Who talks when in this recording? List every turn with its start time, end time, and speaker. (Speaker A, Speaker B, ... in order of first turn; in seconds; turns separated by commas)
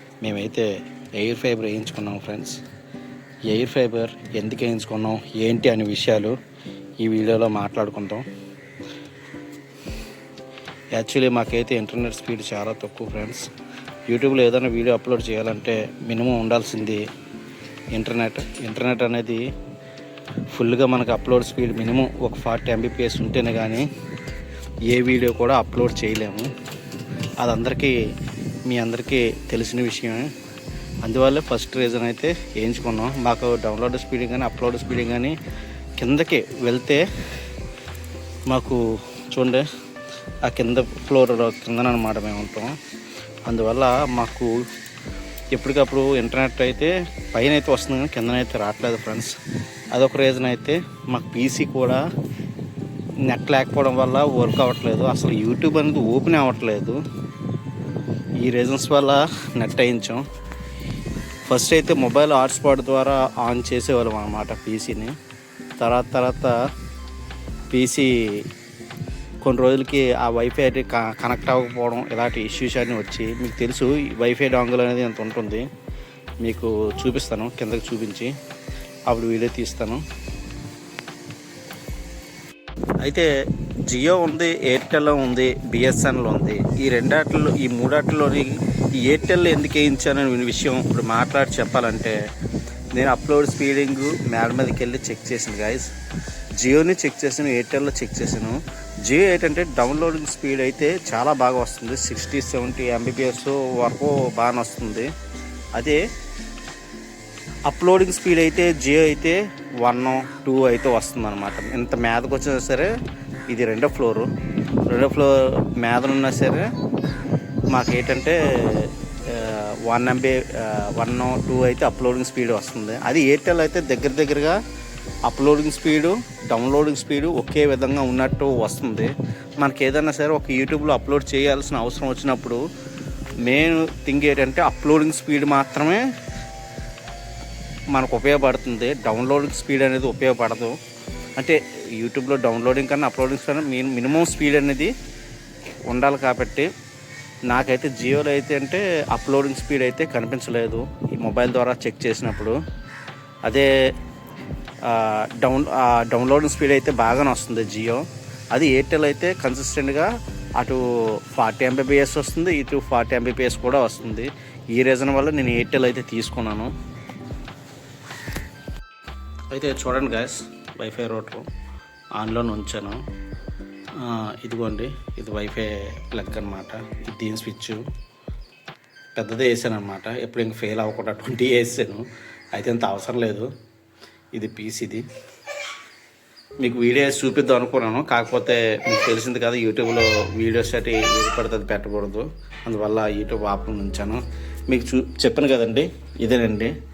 Speaker A: 0.2-2.6, Speaker A: 3.5-6.3, Speaker A: 7.0-8.2, Speaker A: 10.9-13.5, Speaker A: 14.1-17.0, Speaker A: 17.9-19.4, Speaker A: 20.5-23.9, Speaker A: 24.9-26.5, Speaker A: 27.4-27.9, Speaker A: 28.6-30.3, Speaker A: 31.0-35.4, Speaker A: 36.0-37.0, Speaker A: 38.5-39.7, Speaker A: 40.5-42.8, Speaker A: 43.5-44.6, Speaker A: 45.5-49.3, Speaker A: 49.9-52.0, Speaker A: 53.3-57.0, Speaker A: 58.4-60.2, Speaker A: 61.5-65.1, Speaker A: 65.8-66.5, Speaker A: 67.7-68.5, Speaker A: 69.4-75.7, Speaker A: 76.4-78.3, Speaker A: 79.1-80.0, Speaker A: 83.0-83.3, Speaker A: 83.9-92.2, Speaker A: 93.0-95.9, Speaker A: 96.6-105.1, Speaker A: 105.8-106.0, Speaker A: 107.7-112.9, Speaker A: 113.5-114.3, Speaker A: 114.9-116.7, Speaker A: 117.7-124.6, Speaker A: 125.3-132.6, Speaker A: 133.4-136.0, Speaker A: 137.9-140.8, Speaker A: 141.4-144.9, Speaker A: 145.9-146.7, Speaker A: 147.5-152.6, Speaker A: 153.4-153.7, Speaker A: 154.8-166.7, Speaker A: 169.5-171.5, Speaker A: 172.2-173.0, Speaker A: 174.0-177.8, Speaker A: 179.2-183.5, Speaker A: 184.3-185.1, Speaker A: 186.6-196.7